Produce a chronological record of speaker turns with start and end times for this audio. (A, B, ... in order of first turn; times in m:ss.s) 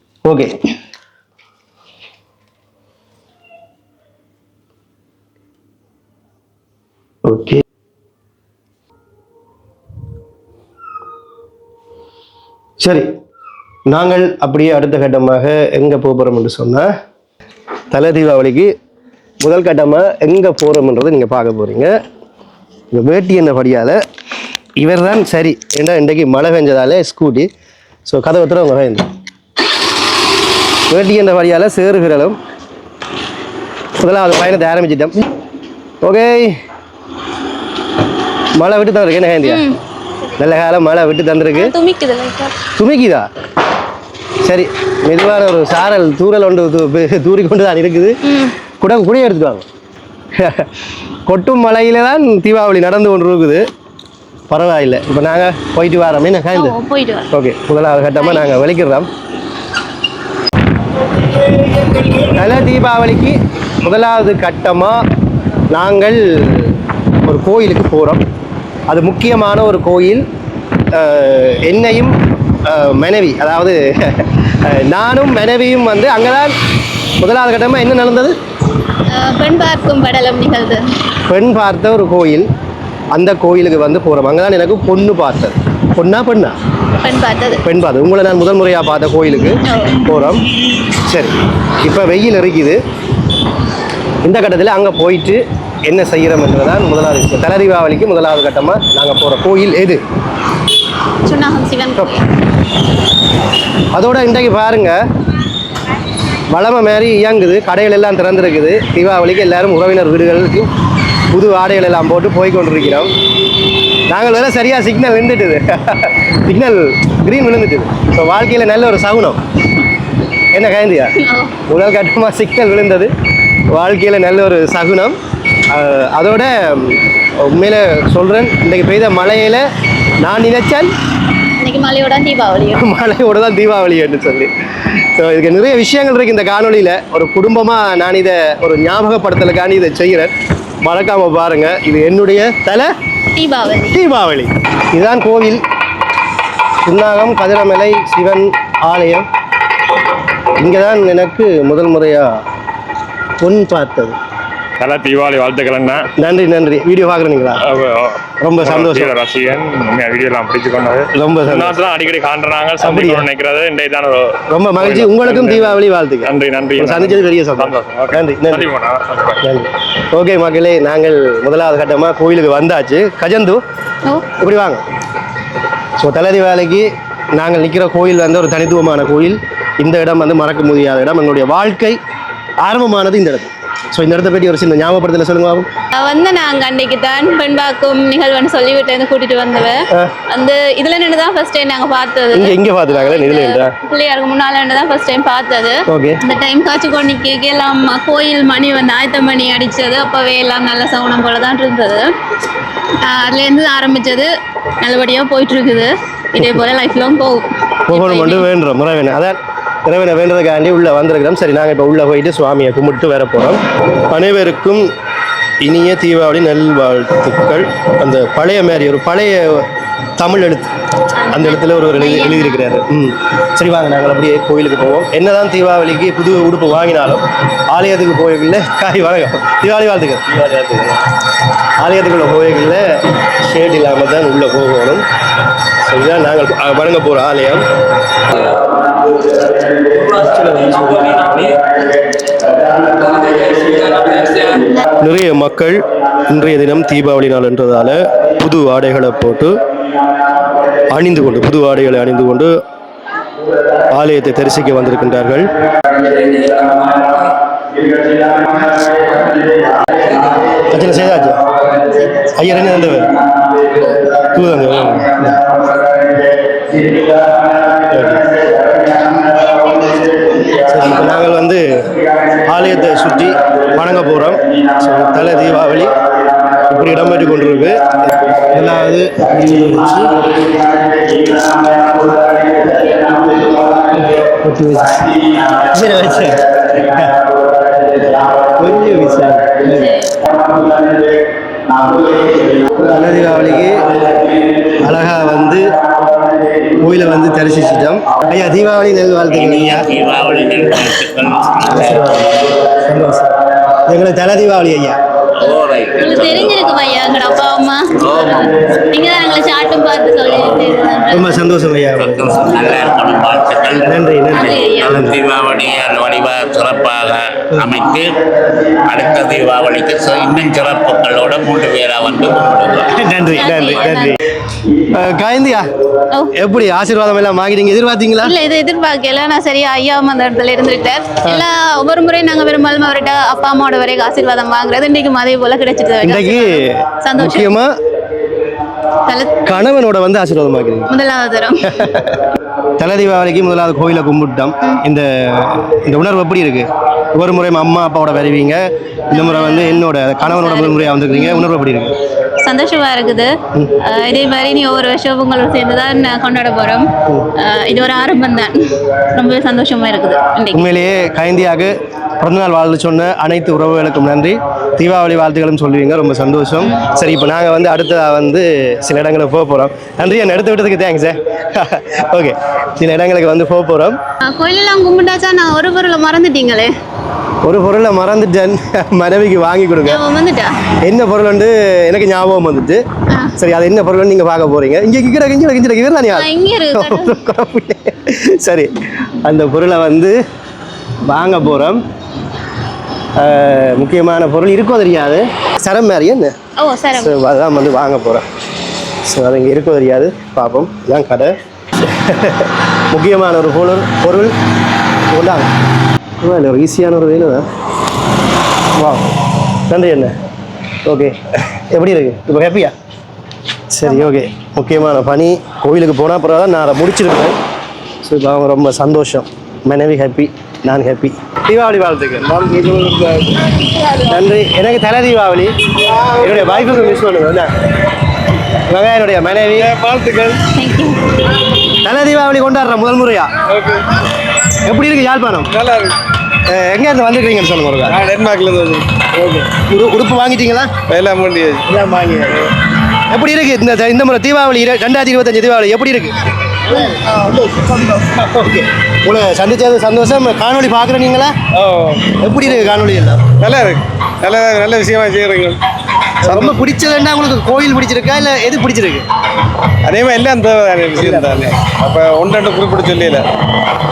0:00.2-0:00.6 A
0:07.2-0:07.6 A
0:12.8-0:13.1 A
0:13.9-0:16.9 A
0:17.9-0:18.7 A
0:19.4-0:21.9 A
0:22.9-0:24.0 A
0:24.8-0:27.5 A
0:28.1-0:29.1 A
0:30.9-0:32.4 A
0:34.0-0:35.2 A
0:36.0-0:36.6 A
0:38.6-0:39.6 A
0:39.4-0:39.8 B
0:40.4-0:41.7 A
0:41.5-0:42.5 B
0:42.8-0:43.3 A
0:44.4-0:48.2 A
0:48.2-0:48.5 B
0:48.8-0:49.6 A
0:50.4-0:50.7 A
0:51.3-0:53.6 A
0:54.5-0:56.8 A
0:56.5-0:57.3 B
0:57.3-0:59.1 A
1:02.2-1:05.0 A
1:05.7-1:08.2 A
1:08.9-1:10.2 A
1:10.9-1:12.1 A
1:12.6-1:16.5 A
1:17.2-1:18.3 A
1:19.1-1:20.8 B
1:21.3-1:22.5 A
1:23.1-1:26.6 A
1:27.0-1:27.6 B
1:27.6-1:30.4 A
1:29.6-1:30.0 B
1:31.1-1:32.8 A
1:34.2-1:40.0 A
1:41.2-1:42.2 B
1:43.9-1:45.0 A
1:46.5-1:50.7 A
1:51.3-1:53.1 A
1:54.1-1:59.4 A
2:00.5-2:01.1 A
2:01.2-2:01.6 B
2:01.7-2:03.1 A
2:03.7-2:05.2 A
2:05.7-2:09.6 A
2:10.2-2:10.9 A
2:11.6-2:12.8 B
2:12.8-2:14.5 A
2:15.1-2:22.9 A
2:23.4-2:24.0 B
2:23.9-2:25.6 A
2:26.8-2:29.2 A
2:30.6-2:32.4 A
2:33.4-2:34.2 A
2:34.8-2:36.0 C
2:36.2-2:37.6 A
2:37.6-2:49.4 C
2:38.4-2:39.1 A
2:41.2-2:41.8 A
2:42.8-2:43.3 A
2:44.5-2:48.7 A
2:49.4-2:53.6 A
2:54.4-2:54.8 A
2:56.0-3:02.0 A
3:02.6-3:05.7 A
3:05.9-3:22.1 B
3:12.3-3:13.7 A
3:15.9-3:16.2 A
3:23.0-3:28.5 B
3:27.9-3:34.9 A
3:35.6-3:40.7 A
3:41.3-3:42.6 B
3:41.3-3:51.1 A
3:51.8-3:55.0 A
3:55.8-3:57.6 A
3:58.3-3:58.7 A
3:59.8-4:01.6 A
4:03.4-4:04.0 A
4:04.4-4:04.8 B
4:04.9-4:09.6 A
4:10.9-4:12.5 A
4:13.9-4:15.5 A
4:20.6-4:21.4 A
4:21.9-4:22.3 B
4:22.3-4:23.2 A
4:24.2-4:25.4 A
4:27.8-4:28.3 A
4:30.5-4:31.6 A
4:32.4-4:36.0 A
4:36.5-4:40.2 A
4:44.1-4:47.1 A
4:48.6-4:49.8 A
4:49.6-4:50.2 B
4:52.7-4:54.0 A
4:54.7-4:55.7 A
4:56.8-4:59.9 A
4:59.3-5:02.2 D
5:01.6-5:03.4 A
5:03.9-5:05.0 A
5:05.4-5:06.6 D
5:06.0-5:11.4 B
5:08.0-5:08.5 D
5:11.1-5:12.5 A
5:12.0-5:18.1 D
5:13.7-5:15.2 A
5:14.3-5:15.0 B
5:18.9-5:23.6 D
5:22.9-5:24.2 A
5:23.3-5:24.2 B
5:24.8-5:25.7 A
5:26.3-5:28.3 A
5:28.2-5:37.5 B
5:36.0-5:37.7 A
5:39.0-5:39.6 B
5:39.4-5:40.9 A
5:40.9-5:41.6 B
5:41.6-5:51.9 A
5:49.1-5:51.5 B
5:52.4-6:00.7 B
6:00.5-6:14.0 A
6:14.2-6:16.7 B
6:17.4-6:20.0 A
6:19.8-6:20.6 B
6:20.8-6:22.8 A
6:23.4-6:30.2 A
6:26.1-6:27.1 B
6:31.0-6:31.8 A
6:33.2-6:36.3 A
6:36.6-6:37.2 B
6:37.0-6:38.3 A
6:39.0-6:44.3 A
6:45.1-6:45.5 A
6:46.2-6:47.5 A
6:48.8-6:49.0 A
6:49.7-6:50.1 A
6:50.8-6:52.7 A
6:53.7-6:57.4 A
6:58.0-7:02.3 A
7:02.3-7:03.5 E
7:04.0-7:05.6 A
7:05.9-7:06.9 E
7:06.2-7:07.5 A
7:08.7-7:09.7 A
7:09.5-7:10.4 E
7:10.5-7:11.0 B
7:11.8-7:13.3 A
7:13.5-7:14.0 E
7:14.6-7:15.5 A
7:15.5-7:16.0 E
7:16.5-7:18.0 A
7:17.9-7:19.4 E
7:19.2-7:20.7 A
7:20.9-7:21.6 E
7:21.7-7:22.3 A
7:23.1-7:31.4 A
7:27.3-7:27.7 E
7:31.5-7:32.2 E
7:32.1-7:33.3 A
7:33.4-7:35.6 E
7:36.2-7:39.0 A
7:36.2-7:36.6 E
7:39.8-7:43.2 E
7:40.9-7:41.5 A